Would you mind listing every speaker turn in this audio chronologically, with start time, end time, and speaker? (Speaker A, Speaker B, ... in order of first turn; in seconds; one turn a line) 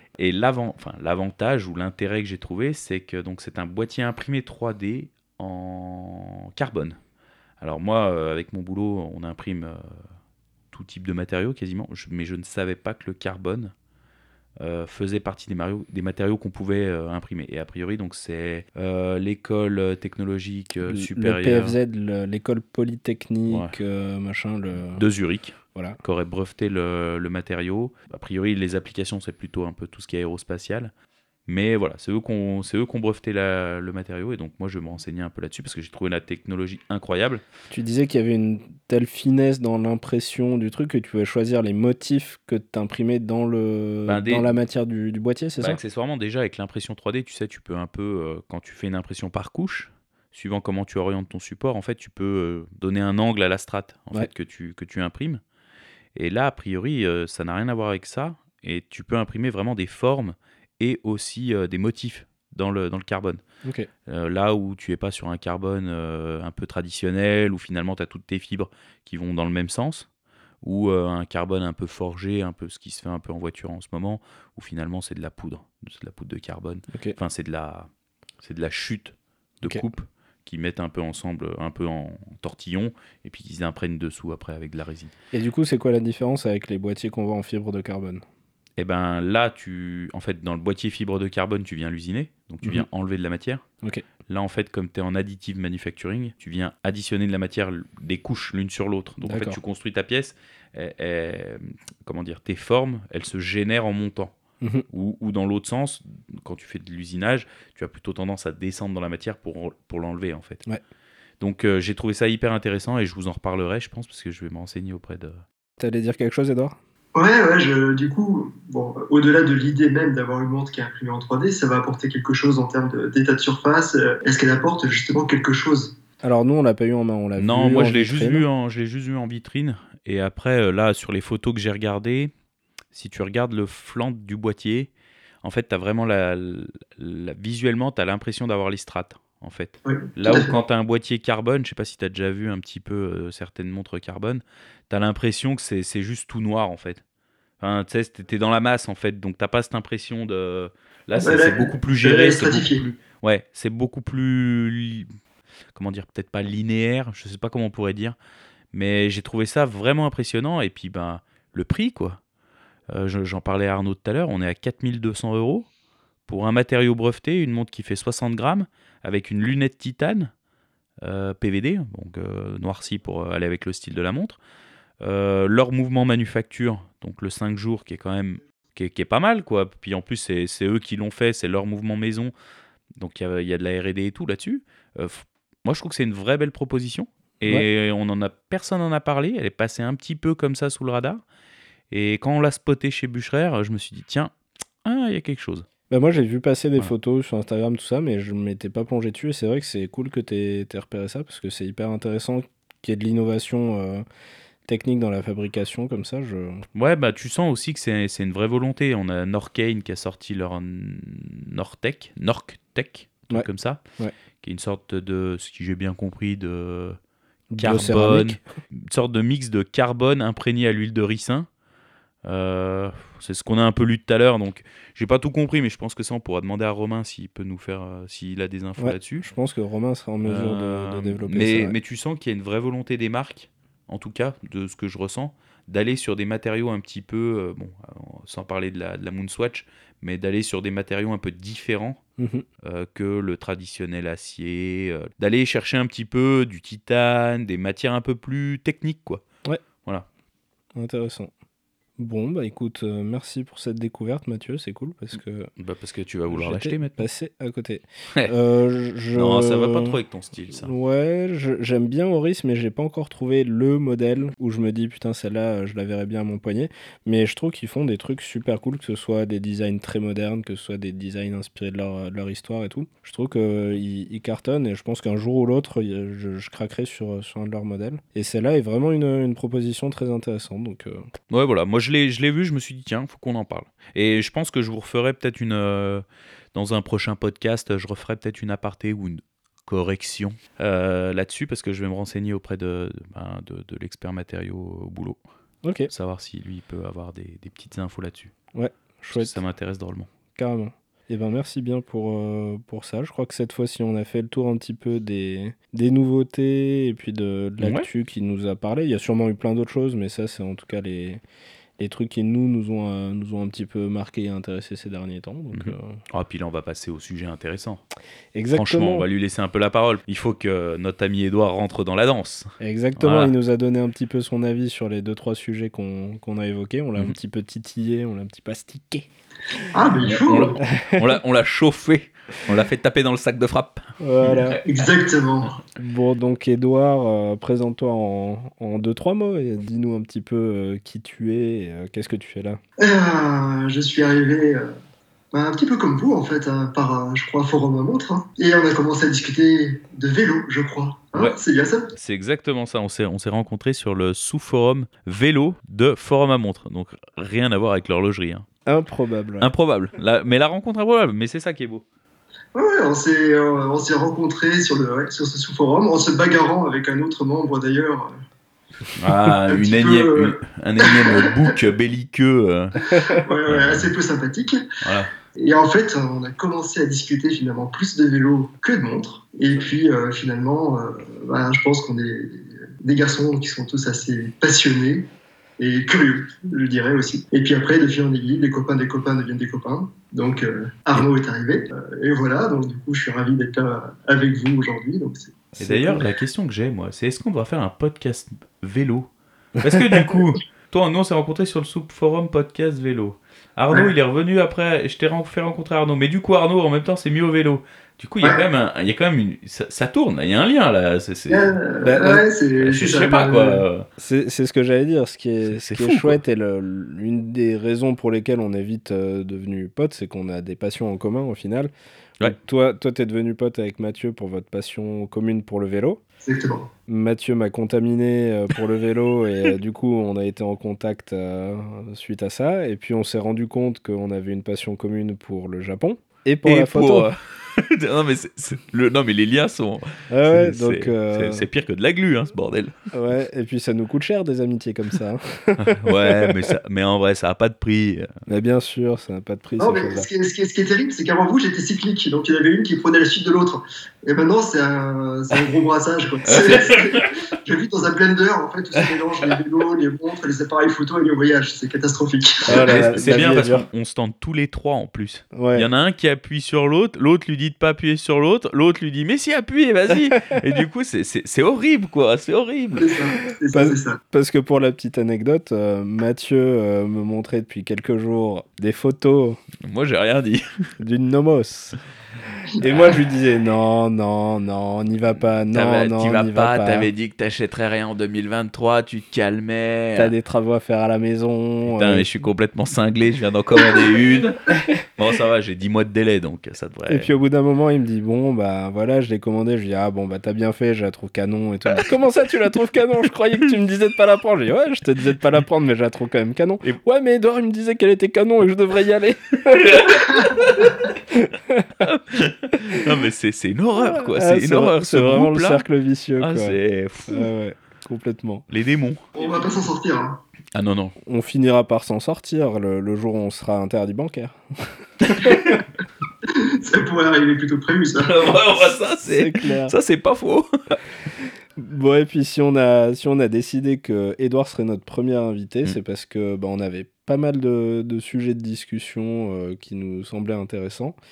Speaker A: 0.1-7.0
Speaker A: 7.6-10.1
Speaker A: 10.7-13.7
Speaker A: 14.6-21.8
Speaker B: 20.8-25.1
Speaker A: 23.5-23.7
Speaker A: 24.9-30.9
Speaker B: 25.7-26.0
Speaker A: 31.5-37.4
Speaker B: 37.7-45.8
Speaker A: 44.0-44.5
Speaker A: 45.6-55.4
Speaker A: 56.1-63.4
Speaker B: 63.6-63.9
Speaker A: 64.1-70.1
Speaker A: 70.6-77.9
Speaker B: 76.9-77.2
Speaker A: 78.4-85.1
Speaker B: 85.3-88.2
Speaker A: 88.8-93.6
Speaker A: 94.3-104.3
Speaker B: 99.2-99.6
Speaker B: 104.6-104.8
Speaker A: 104.9-110.6
Speaker A: 111.4-115.4
Speaker B: 115.8-116.8
Speaker C: 117.1-126.0
Speaker B: 126.2-128.4
Speaker A: 127.4-132.3
Speaker A: 132.9-134.9
Speaker A: 135.4-147.0
Speaker C: 139.8-140.6
Speaker A: 147.6-155.1
Speaker C: 151.2-152.8
Speaker A: 155.7-158.2
Speaker A: 158.7-162.2
Speaker A: 162.9-165.7
Speaker A: 166.3-170.3
Speaker A: 171.0-174.4
Speaker A: 175.0-182.3
Speaker A: 183.0-191.2
Speaker A: 191.9-194.3
Speaker A: 194.8-195.7
Speaker B: 195.9-204.0
Speaker B: 204.7-206.7
Speaker A: 206.7-213.8
Speaker A: 214.4-217.0
Speaker B: 217.5-218.4
Speaker A: 217.6-221.5
Speaker A: 222.2-229.3
Speaker B: 228.8-231.7
Speaker A: 230.2-242.0
Speaker B: 242.2-242.4
Speaker A: 242.6-249.2
Speaker B: 250.8-251.3
Speaker B: 252.0-255.5
Speaker A: 255.6-257.1
Speaker B: 256.3-260.0
Speaker A: 259.1-260.7
Speaker B: 260.5-281.1
Speaker A: 281.3-295.2
Speaker B: 295.6-295.9
Speaker A: 295.9-298.3
Speaker B: 298.5-299.3
Speaker A: 299.1-300.1
Speaker B: 300.3-311.2
Speaker A: 307.6-307.9
Speaker B: 311.8-316.0
Speaker A: 315.5-317.8
Speaker B: 318.3-319.1
Speaker A: 318.5-323.3
Speaker B: 322.6-329.1
Speaker C: 329.7-330.6
Speaker A: 330.0-334.9
Speaker B: 334.0-334.6
Speaker C: 334.6-335.6
Speaker B: 335.8-342.6
Speaker C: 342.8-344.7
Speaker C: 345.3-351.9
Speaker A: 351.9-358.5
Speaker B: 358.6-359.5
Speaker A: 359.4-361.8
Speaker C: 362.5-368.1
Speaker A: 368.9-372.8
Speaker C: 369.5-371.5
Speaker B: 372.9-373.2
Speaker C: 373.1-374.6
Speaker A: 373.5-373.9
Speaker A: 374.8-375.1
Speaker C: 375.3-395.5
Speaker B: 395.5-396.0
Speaker A: 395.6-399.1
Speaker A: 399.6-411.5
Speaker C: 411.3-413.6
Speaker B: 411.8-412.2
Speaker A: 412.6-413.9
Speaker B: 414.0-426.0
Speaker A: 415.5-416.2
Speaker C: 426.2-426.7
Speaker B: 426.9-437.1
Speaker A: 436.4-442.8
Speaker B: 440.1-441.5
Speaker B: 442.9-446.4
Speaker A: 445.6-448.1
Speaker B: 448.3-450.1
Speaker C: 449.6-462.9
Speaker A: 456.2-457.1
Speaker B: 462.5-463.7
Speaker A: 462.5-473.0
Speaker B: 465.3-465.6
Speaker C: 472.8-474.0
Speaker B: 473.5-479.4
Speaker A: 479.6-480.4
Speaker B: 480.8-481.8
Speaker B: 482.5-486.9
Speaker A: 485.5-490.1
Speaker B: 489.9-492.1
Speaker A: 491.6-494.4
Speaker A: 495.0-497.1
Speaker B: 496.9-511.9
Speaker A: 509.5-510.7
Speaker A: 511.8-515.6
Speaker B: 512.6-512.9
Speaker B: 513.8-516.6
Speaker A: 516.2-517.3
Speaker B: 517.1-518.5
Speaker A: 518.5-519.3
Speaker C: 519.1-520.2
Speaker A: 520.5-521.0
Speaker B: 521.0-525.6
Speaker A: 525.0-525.6
Speaker C: 526.3-528.3
Speaker A: 528.0-530.8
Speaker B: 528.9-529.8
Speaker B: 531.6-541.0